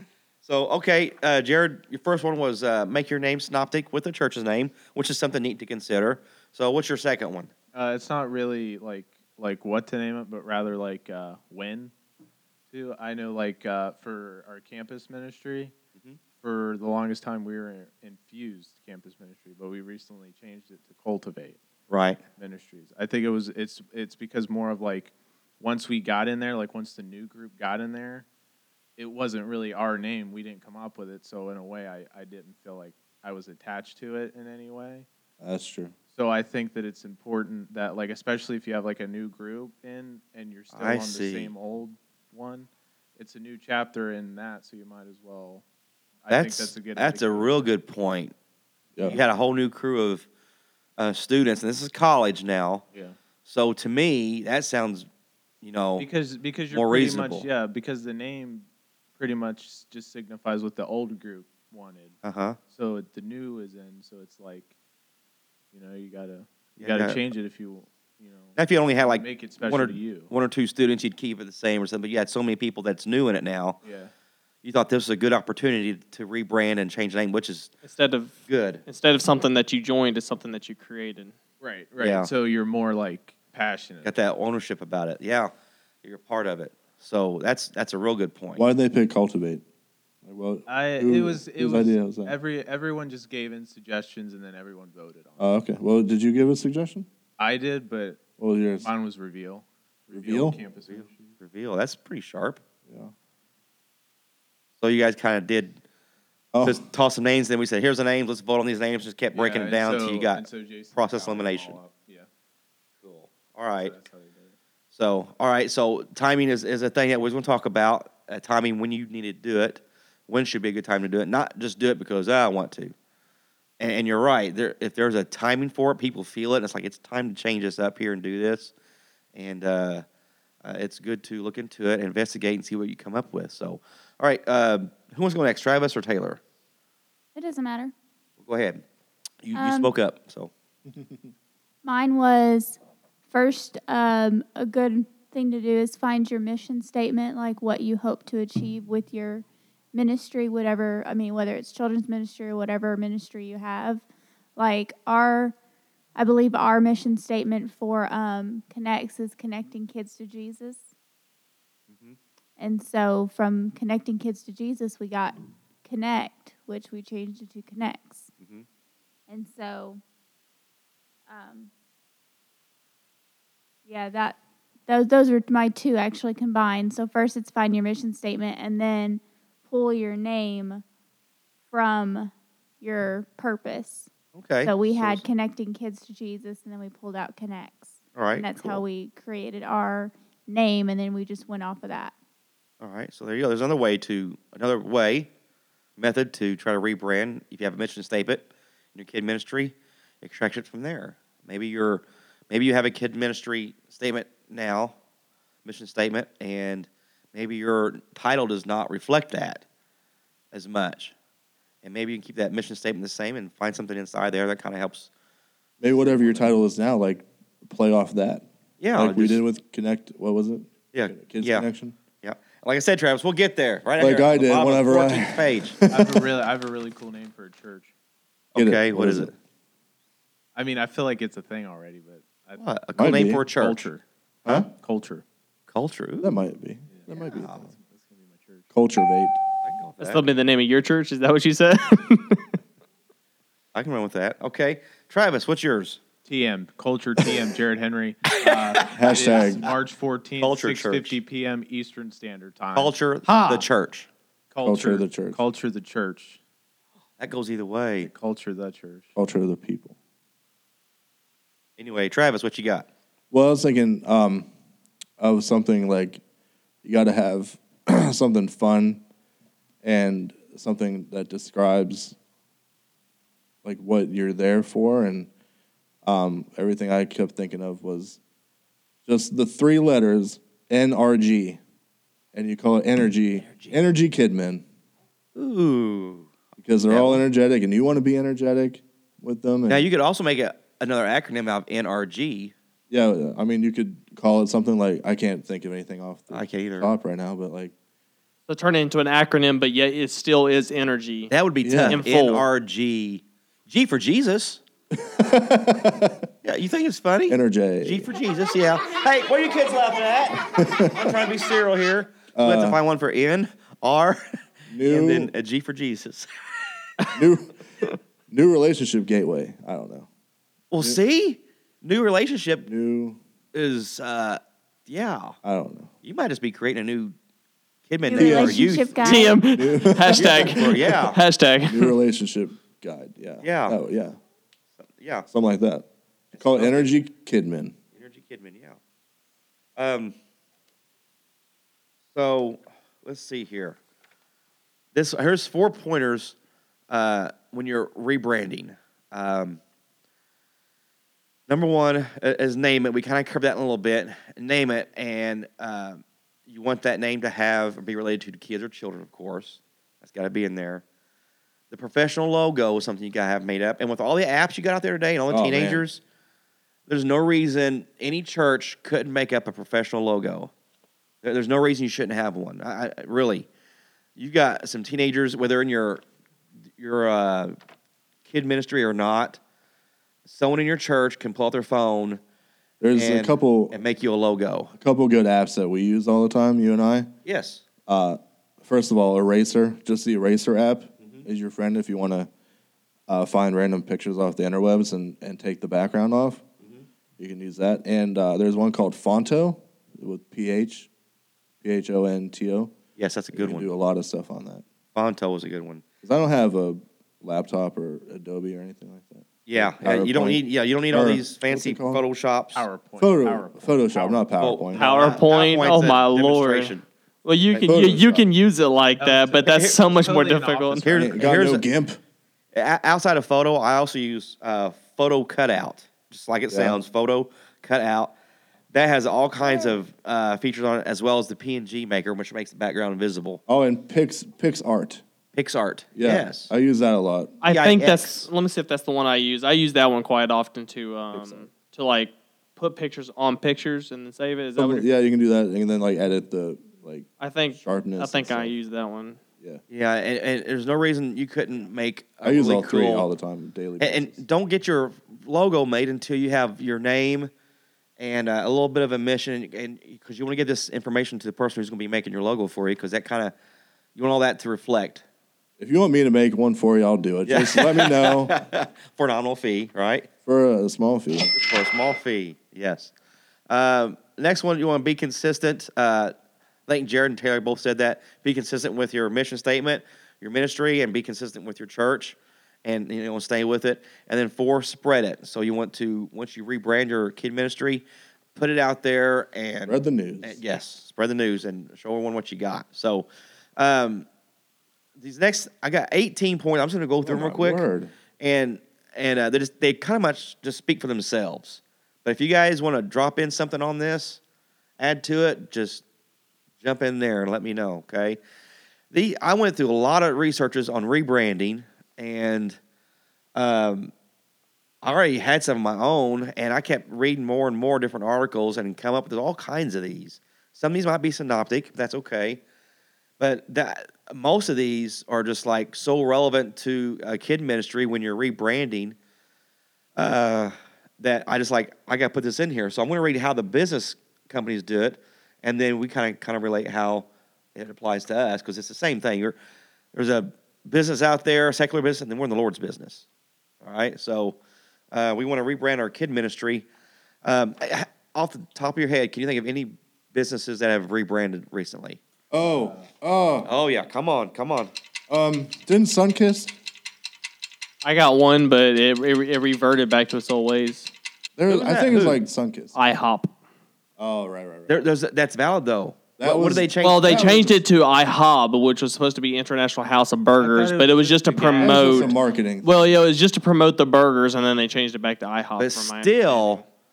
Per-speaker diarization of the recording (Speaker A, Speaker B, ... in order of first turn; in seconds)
Speaker A: 0.4-7.5, 21.9-22.2, 40.7-41.5, 46.3-48.3, 49.0-50.3, 51.0-52.8, 53.5-55.1, 55.6-56.1, 56.7-57.5, 62.2-62.6, 66.8-67.2, 68.6-73.8, 74.6-77.7, 78.5-78.8, 82.0-82.3, 84.0-85.5, 86.0-88.7, 100.9-102.6, 104.8-105.8, 106.6-111.8, 113.0-113.9, 114.9-123.0, 123.8-128.7, 129.3-130.1, 130.6-136.4, 138.4-138.8, 139.4-140.5, 161.9-162.2, 168.4-168.7, 184.3-185.2, 188.2-188.8, 192.8-195.3, 196.0-204.9, 205.7-209.6, 210.5-211.1, 211.8-215.1, 218.8-219.4, 220.9-221.7, 222.2-225.8, 228.5-229.3, 232.6-233.9, 235.7-236.3, 237.3-237.6, 239.6-240.3, 243.8-246.0, 248.3-249.0, 250.4-251.2, 252.8-254.1, 257.2-258.1, 261.8-262.9, 283.4-283.8, 285.4-286.3, 286.9-287.2, 289.7-292.5, 296.3-296.9, 301.3-304.6, 306.4-314.2, 314.9-316.3, 320.7-322.7, 323.5-325.4, 326.0-327.1, 327.9-329.3, 330.1-331.2, 333.4-333.8, 334.9-335.3, 336.3-336.9, 337.9-338.8, 339.8-340.1, 342.1-343.8, 344.9-346.4, 346.9-349.6, 351.5-360.8, 361.7-366.0, 366.9-370.5, 371.2-373.5, 374.2-376.0, 376.8-377.6, 378.3-379.4, 380.3-382.2, 382.9-384.7, 387.2-387.6, 403.0-403.7, 404.9-405.8, 409.5-412.6, 414.4-416.9, 420.8-421.6, 422.5-428.1, 428.7-433.4, 435.3-436.5, 437.5-438.3, 449.7-453.1, 453.8-457.3, 458.0-463.3, 463.9-465.0, 467.3-470.1, 471.3-472.9, 473.5-476.1, 476.7-494.1, 495.0-497.6, 498.2-504.2, 504.8-505.8, 506.6-508.2, 508.9-512.6, 513.4-513.9, 514.8-522.4, 523.2-529.0, 530.0-539.4, 539.9-543.0, 543.6-544.4, 544.9-546.7, 547.2-552.0, 553.5-554.7, 561.5-562.2, 564.7-567.5, 575.6-576.6
Speaker B: 7.7-11.9, 12.7-15.7, 16.4-21.6, 22.4-28.2, 29.0-35.1, 36.1-45.6, 46.2-47.7, 56.0-58.7, 59.2-62.1, 62.7-64.7, 65.7-70.3, 73.8-74.1, 81.6-84.2, 90.7-95.4, 97.4-98.2, 98.8-101.3, 109.3-112.3, 113.8-114.5, 225.9-227.9, 230.6-234.0, 234.7-235.2, 236.9-238.7, 246.3-253.7, 254.5-256.4, 258.0-259.1, 412.6-414.3, 419.0-421.2, 570.4-572.1
Speaker C: 35.4-35.9, 88.6-89.6, 90.2-92.4, 95.4-97.1, 98.4-98.9, 100.1-100.6, 106.5-106.8, 215.8-222.0, 224.0-226.2, 228.6-229.3, 233.0-233.4, 236.2-237.7, 238.7-239.4, 248.9-249.7, 254.6-255.4, 259.2-259.9, 263.3-264.5, 265.2-266.2, 266.8-269.0, 269.8-272.2, 273.6-275.3, 276.0-278.2, 279.1-281.6, 282.3-284.6, 286.6-289.9, 292.9-297.7, 301.6-302.0, 304.9-306.2, 307.3-308.1, 310.5-311.1, 312.3-312.8, 314.7-315.3, 317.1-317.6, 318.3-320.1, 322.6-323.2, 325.4-325.9, 328.1-330.7, 331.7-334.2, 335.3-337.8, 365.3-365.9, 382.8-383.8, 384.8-387.1, 387.9-392.3, 393.1-396.4, 397.2-400.9, 401.6-402.7, 403.3-404.6, 406.0-412.0, 413.0-414.9, 417.7-418.3, 420.9-422.0, 426.5-426.8, 433.5-435.0, 435.9-437.4, 441.1-441.4, 444.6-448.5, 452.2-454.2, 465.6-468.4, 470.3-471.4, 489.7-490.4, 497.1-497.9, 552.3-553.5, 555.1-556.5, 561.4-562.7, 564.0-564.8, 566.2-567.6, 571.6-572.9
Speaker D: 77.8-81.3, 240.0-242.6, 298.5-301.3, 301.9-302.5, 329.0-331.9, 414.8-420.9, 437.4-444.9, 447.2-449.2, 557.8-560.9, 562.8-563.3, 566.8-572.1, 572.6-576.6
Speaker E: 137.3-137.9, 139.6-139.9, 141.8-142.8, 143.3-154.0, 154.6-155.6, 156.2-160.9, 162.6-168.3, 169.3-170.0, 171.3-171.7, 173.9-180.8, 181.7-184.1, 184.6-192.1, 328.1-329.4